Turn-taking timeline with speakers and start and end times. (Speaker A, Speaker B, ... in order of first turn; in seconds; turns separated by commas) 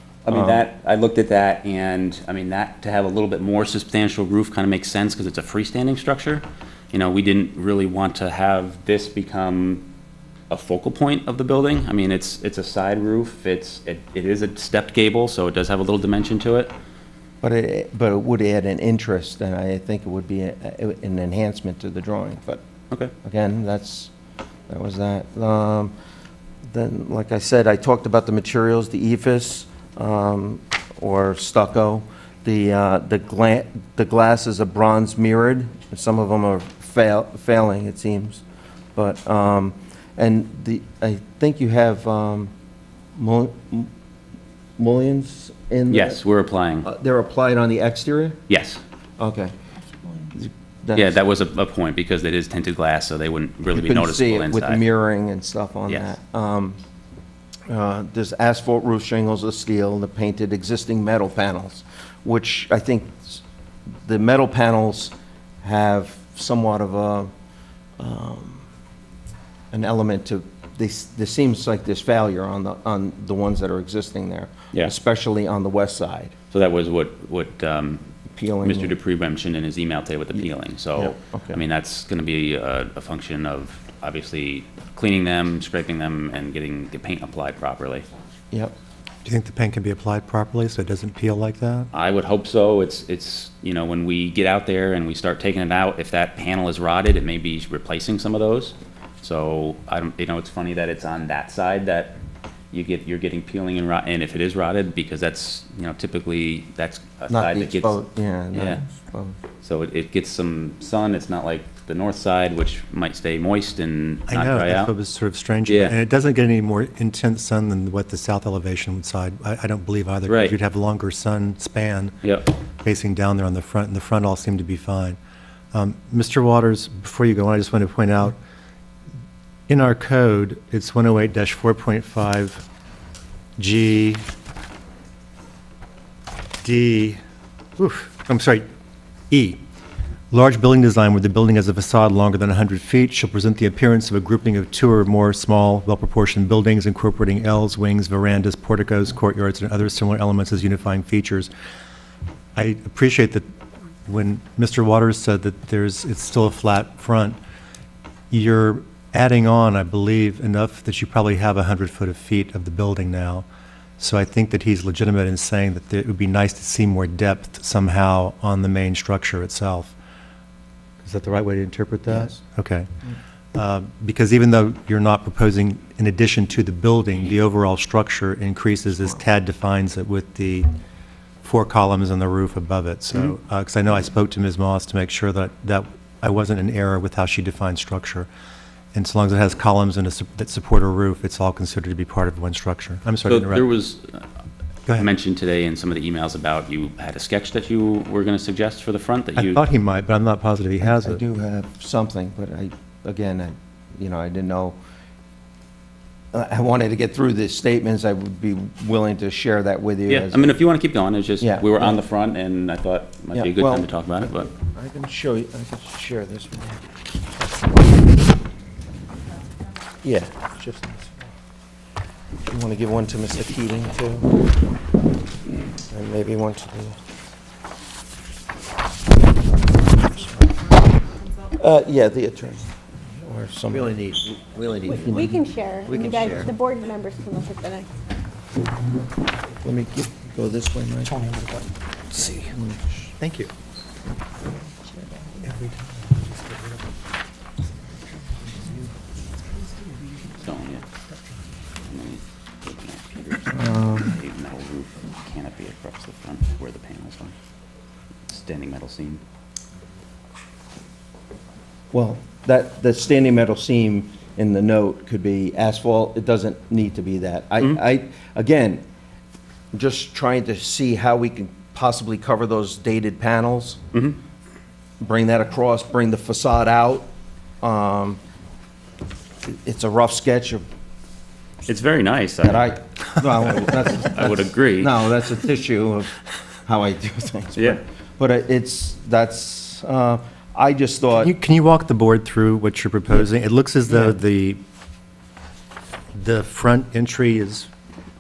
Speaker A: 0.2-9.8, Speaker B: 0.3-0.6, Speaker A: 10.5-16.7, Speaker B: 17.4-22.6, Speaker B: 23.2-24.1, Speaker B: 24.7-25.9, Speaker B: 26.7-38.4, Speaker B: 38.9-42.5, Speaker B: 43.1-43.9, Speaker B: 44.8-46.2, Speaker A: 45.9-46.9, Speaker B: 46.8-48.4, Speaker A: 48.5-48.8, Speaker B: 49.2-49.5, Speaker B: 50.2-51.2, Speaker A: 50.9-54.8, Speaker B: 53.7-56.8, Speaker A: 55.9-56.1, Speaker B: 57.7-63.4, Speaker B: 64.0-67.3, Speaker B: 68.0-68.7, Speaker B: 69.7-76.3, Speaker A: 76.5-78.0, Speaker B: 78.3-79.0, Speaker A: 78.6-88.0, Speaker B: 80.3-81.6, Speaker C: 89.2-91.9, Speaker A: 91.9-102.2, Speaker A: 102.7-108.0, Speaker B: 107.3-109.3, Speaker A: 108.5-108.8, Speaker A: 109.6-114.9, Speaker C: 114.3-122.1, Speaker A: 115.7-116.0, Speaker A: 120.3-120.5, Speaker A: 122.2-122.5, Speaker C: 122.8-125.2, Speaker C: 125.7-128.4, Speaker C: 129.7-132.6, Speaker C: 133.6-134.2, Speaker C: 136.6-137.2, Speaker C: 137.8-138.6, Speaker C: 139.3-139.6, Speaker C: 140.3-151.5, Speaker C: 152.6-153.4, Speaker C: 154.1-157.4, Speaker C: 158.3-163.4, Speaker C: 164.0-169.9, Speaker C: 171.0-172.9, Speaker B: 172.1-172.4, Speaker C: 173.5-180.7, Speaker C: 181.4-188.3, Speaker C: 188.9-193.7, Speaker A: 193.2-194.2, Speaker A: 195.0-199.6, Speaker C: 199.3-201.2, Speaker B: 200.8-204.8, Speaker B: 206.3-210.5, Speaker A: 210.1-214.5, Speaker B: 211.4-212.0, Speaker B: 213.3-216.8, Speaker B: 220.0-220.8, Speaker B: 222.5-224.3, Speaker B: 225.9-226.9, Speaker B: 230.1-230.5, Speaker B: 231.5-232.7, Speaker B: 233.2-234.0, Speaker D: 233.7-235.3, Speaker E: 234.9-237.9, Speaker B: 235.1-235.4, Speaker D: 235.8-236.5, Speaker B: 235.9-236.4, Speaker B: 239.6-241.3, Speaker C: 242.1-242.6, Speaker C: 243.2-243.5, Speaker C: 245.4-246.8, Speaker A: 250.3-250.8, Speaker A: 251.8-257.3, Speaker B: 253.5-254.1, Speaker A: 258.3-259.2, Speaker B: 261.9-268.8, Speaker B: 269.7-273.8, Speaker B: 275.0-277.1, Speaker B: 277.6-278.2, Speaker B: 279.5-280.6, Speaker A: 281.7-282.7, Speaker B: 282.4-286.1, Speaker A: 283.6-284.9, Speaker B: 286.7-291.3, Speaker C: 291.1-294.6, Speaker C: 296.2-297.7